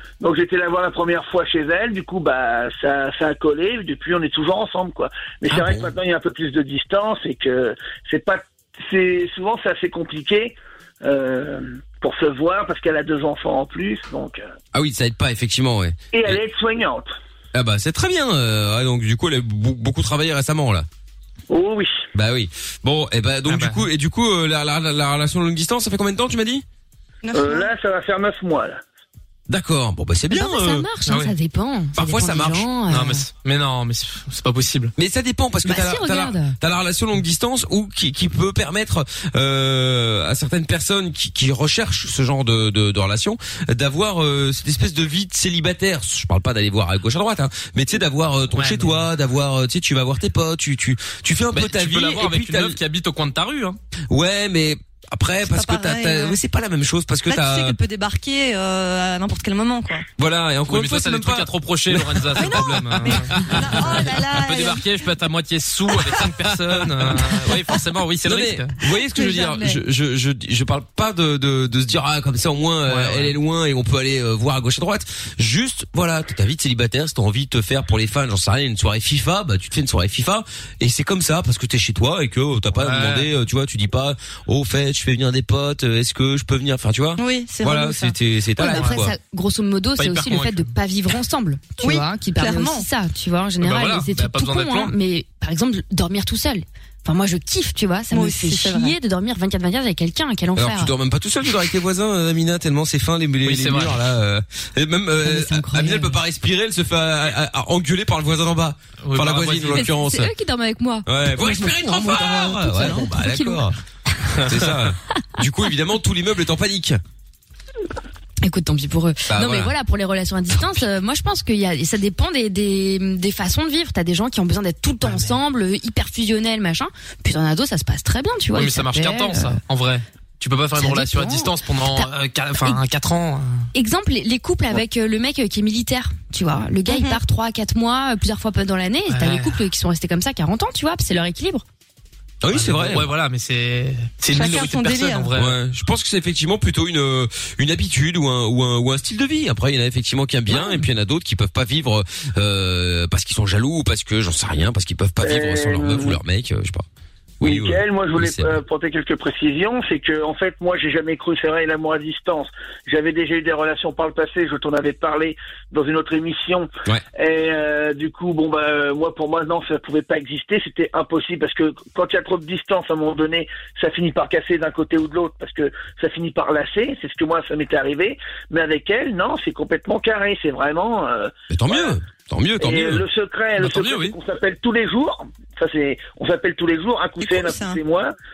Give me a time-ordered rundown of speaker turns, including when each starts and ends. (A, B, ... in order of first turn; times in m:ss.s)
0:00.2-0:14.4 A
0:05.5-0:05.9 B
0:14.7-0:16.4 B
0:16.1-0:17.1 A
0:17.5-0:20.8 B
0:21.5-0:22.0 A
0:22.1-0:26.6 B
0:23.5-0:23.8 C
0:27.2-0:27.7 D
0:27.3-0:28.8 A
0:29.5-0:30.9 B
0:30.3-0:33.2 E
0:31.1-0:31.3 C
0:32.0-0:32.7 B
0:32.9-0:34.9 C
0:35.0-0:52.8 B
0:35.6-0:36.5 E
0:48.5-0:49.0 C
0:51.5-0:53.8 C
0:54.1-0:57.8 B
0:55.5-0:56.4 D
0:57.3-1:00.0 D
1:00.2-1:04.1 B
1:00.7-1:08.7 C
1:02.4-1:04.8 D
1:08.2-1:29.1 B
1:09.1-1:09.8 D
1:12.9-1:13.3 C
1:22.8-1:23.3 C
1:27.2-1:28.1 D
1:28.6-1:40.9 E
1:30.0-1:30.7 C
1:31.8-1:32.8 D
1:33.6-1:34.9 C
1:38.1-1:39.0 D
1:40.6-1:50.3 B
1:43.4-1:44.0 C
1:45.2-1:46.2 E
1:49.0-1:49.9 C
1:49.7-1:53.6 E
1:51.0-1:53.7 B
1:54.4-1:57.0 B
1:58.4-2:09.6 E
1:59.3-1:59.7 B
2:05.0-2:05.3 C
2:08.5-2:13.6 C
2:10.8-2:12.1 E
2:13.7-2:21.6 E
2:16.9-2:17.2 D
2:19.1-2:19.6 C
2:22.4-2:23.1 B
2:22.5-2:25.6 C
2:24.3-2:25.3 D
2:25.3-2:36.8 B
2:35.2-2:36.2 A
2:37.4-2:38.6 B
2:37.4-3:01.9 A
3:01.5-3:03.0 B
3:02.6-3:08.1 A
3:03.6-3:04.2 C
3:07.2-3:07.8 D